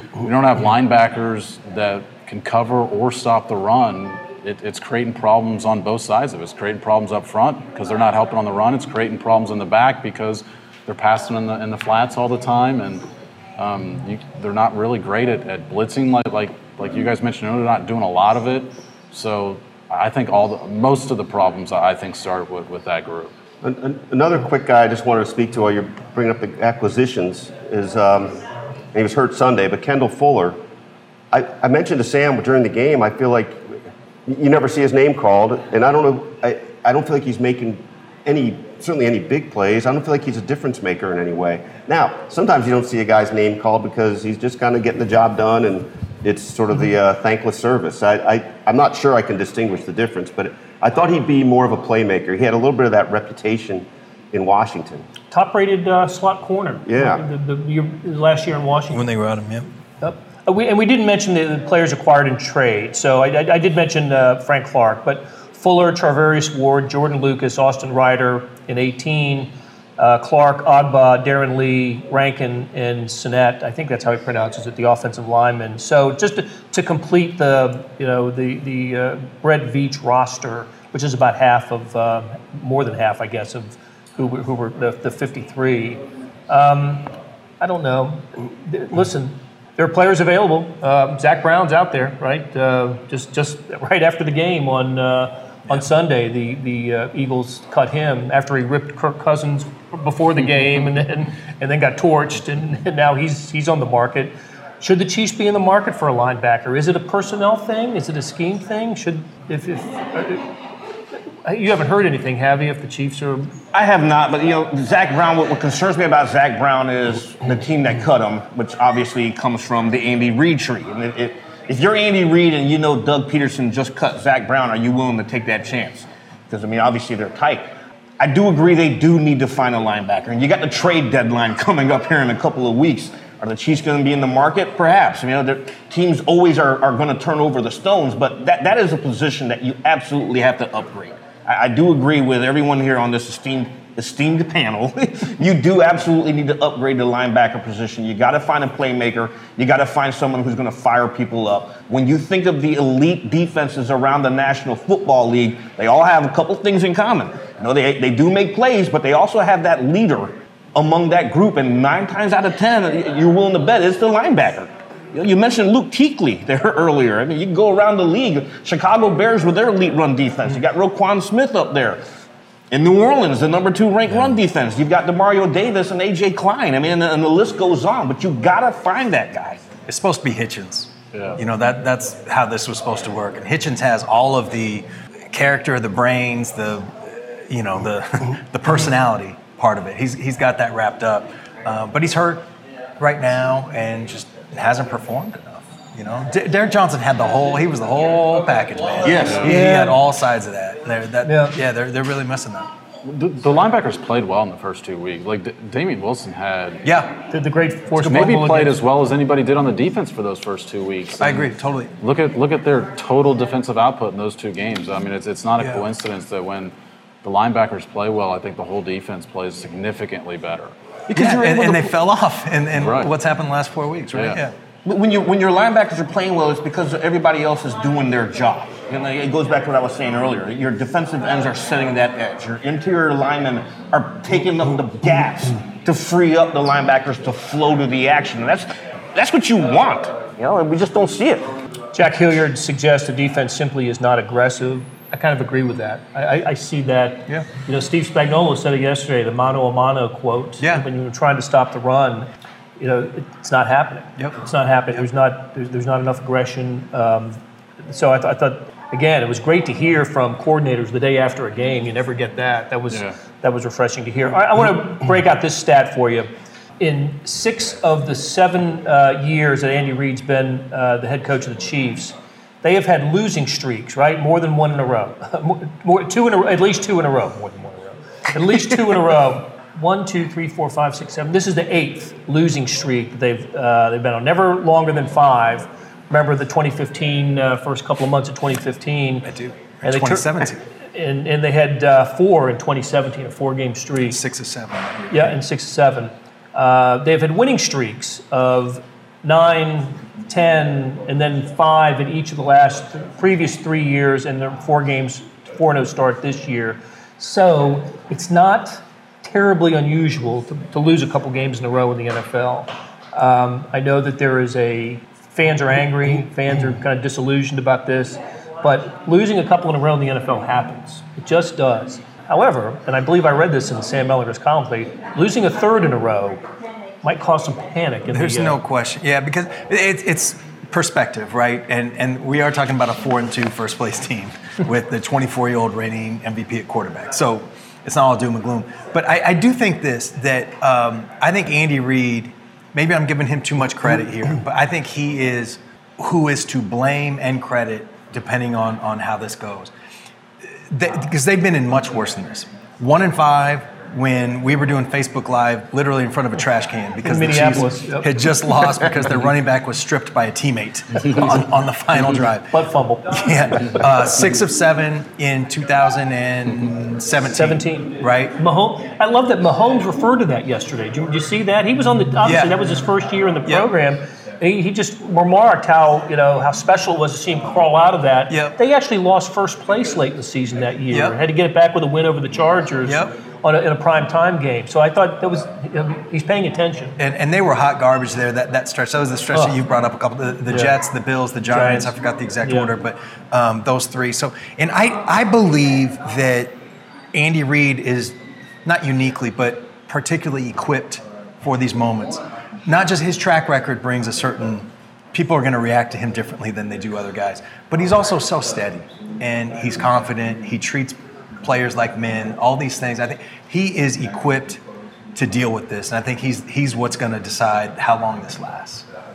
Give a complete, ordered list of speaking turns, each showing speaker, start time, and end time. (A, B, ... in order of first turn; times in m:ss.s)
0:00.2-0:23.3 A
0:23.6-0:28.4 B
0:28.9-0:30.6 B
0:31.3-0:55.0 B
0:55.3-0:59.0 C
0:56.9-0:57.2 B
0:58.9-0:59.7 D
1:00.0-1:50.5 C
1:51.4-1:53.5 C
1:53.7-2:07.7 E
2:08.2-2:52.0 E
2:52.7-2:59.6 E
2:59.9-3:22.7 D
3:01.1-3:01.4 A
3:19.0-3:19.4 E
3:19.4-3:20.0 C
3:21.2-3:21.6 C
3:23.0-3:26.9 A
3:26.8-3:27.1 D
3:27.3-3:28.8 C
3:28.0-3:40.7 A
3:31.2-3:31.9 D
3:35.6-3:35.9 D
3:41.1-3:44.5 D
3:41.1-3:41.8 E
3:42.7-3:43.1 A
3:44.1-3:44.4 A
3:44.8-4:01.5 E
4:01.9-4:49.3 C
4:10.6-4:10.9 D
4:22.9-4:23.1 A
4:49.2-4:50.6 D
4:49.8-4:54.2 C
4:54.0-4:55.4 D
4:55.1-5:26.4 C
5:27.0-5:28.6 C
5:28.1-5:49.7 D
5:50.4-6:08.4 D
5:57.0-5:58.2 C
6:02.5-6:03.1 C
6:07.3-6:27.0 C
6:12.2-6:12.6 D
6:13.4-6:13.7 D
6:18.3-6:18.6 D
6:20.9-6:21.2 D
6:22.8-6:23.1 D
6:27.0-6:36.6 D
6:30.5-6:30.8 C
6:31.5-6:31.9 C
6:32.4-6:32.7 C
6:37.1-6:54.6 D
6:55.1-6:58.9 D